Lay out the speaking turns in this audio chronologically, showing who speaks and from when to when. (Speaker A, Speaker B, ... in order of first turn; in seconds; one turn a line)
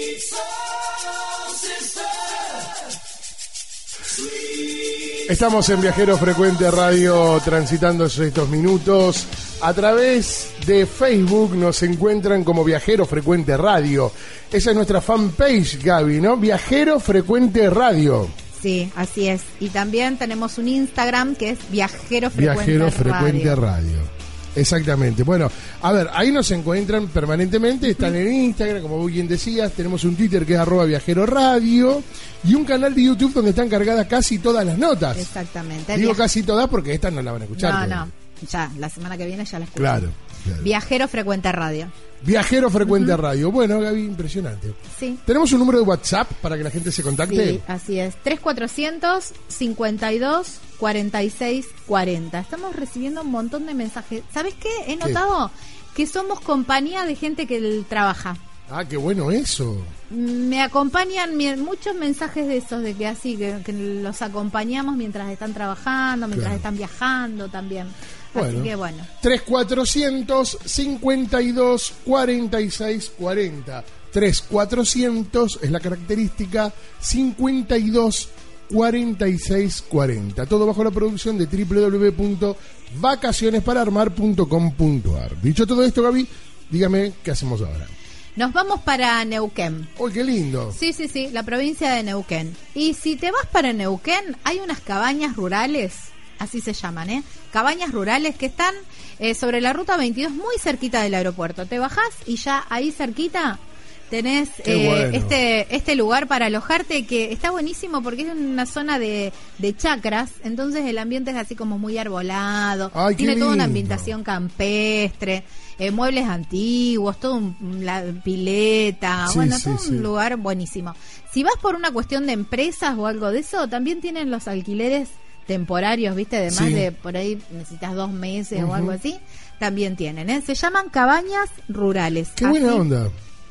Speaker A: 5.3-18.4
Speaker B: 18.6-23.6
Speaker A: 22.3-35.3
Speaker B: 35.2-36.2
Speaker A: 35.9-38.1
Speaker B: 37.6-40.1
Speaker A: 39.8-40.7
Speaker B: 40.6-41.9
Speaker A: 42.2-47.6
Speaker B: 42.9-43.2
Speaker B: 44.9-45.2
Speaker B: 47.3-58.4
Speaker A: 58.7-59.9
Speaker B: 60.1-69.1
Speaker A: 66.3-66.6
Speaker A: 68.3-87.9
Speaker B: 88.4-89.9
Speaker A: 90.0-90.8
Speaker B: 90.7-103.6
Speaker B: 104.1-132.8
Speaker A: 104.7-105.3
Speaker A: 112.9-114.1
Speaker A: 119.2-120.1
Speaker A: 126.5-126.9
Speaker A: 128.6-128.9
Speaker A: 132.4-133.1